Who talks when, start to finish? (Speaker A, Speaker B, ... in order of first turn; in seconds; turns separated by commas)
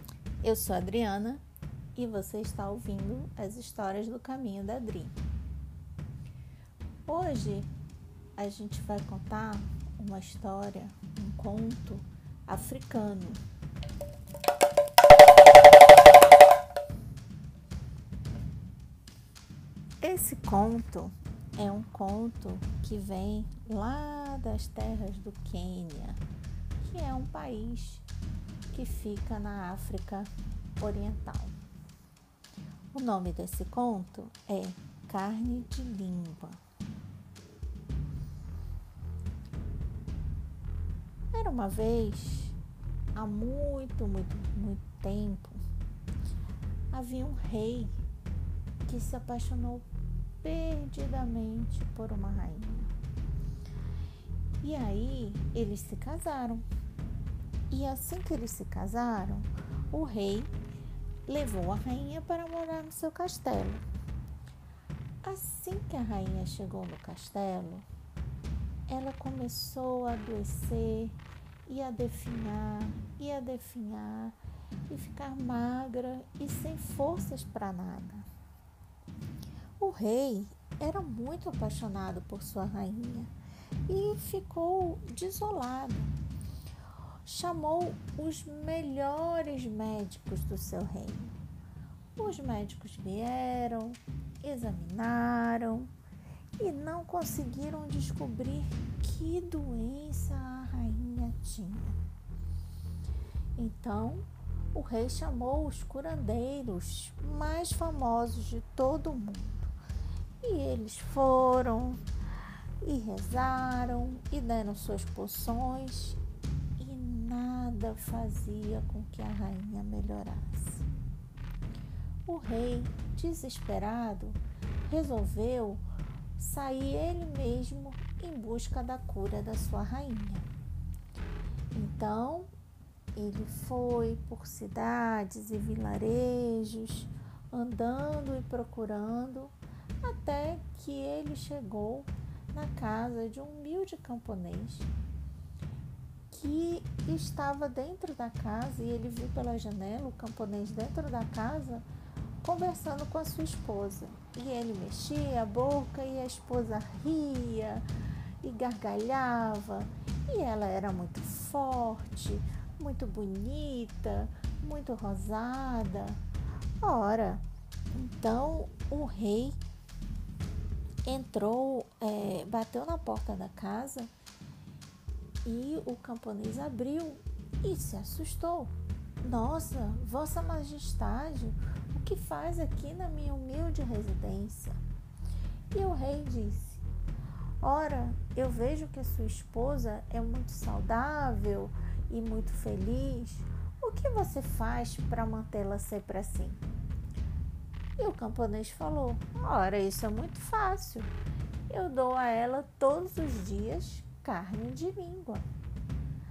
Speaker A: 0.4-1.4, Speaker A: 1.9-5.2, Speaker A: 7.1-7.7, Speaker A: 8.4-13.4, Speaker A: 20.0-26.2, Speaker A: 26.8-28.1, Speaker A: 28.7-31.6, Speaker A: 32.9-36.6, Speaker A: 41.3-42.6, Speaker A: 43.1-45.6, Speaker A: 46.9-48.0, Speaker A: 48.9-49.9, Speaker A: 50.4-52.9, Speaker A: 54.6-56.6, Speaker A: 57.7-60.5, Speaker A: 61.3-63.8, Speaker A: 65.2-67.9, Speaker A: 68.9-74.4, Speaker A: 74.9-78.3, Speaker A: 79.8-83.3, Speaker A: 83.9-86.2, Speaker A: 87.2-91.4, Speaker A: 92.2-95.9, Speaker A: 96.6-102.0, Speaker A: 103.6-109.8, Speaker A: 110.4-112.0, Speaker A: 112.8-116.2, Speaker A: 116.8-120.9, Speaker A: 122.3-125.9, Speaker A: 126.4-130.5, Speaker A: 131.7-132.5, Speaker A: 133.2-144.9, Speaker A: 146.3-151.9, Speaker A: 152.4-157.9, Speaker A: 158.4-166.2, Speaker A: 166.8-169.6, Speaker A: 171.0-174.1, Speaker A: 175.4-184.8, Speaker A: 185.7-186.8, Speaker A: 187.6-196.6, Speaker A: 198.0-201.1, Speaker A: 201.7-205.5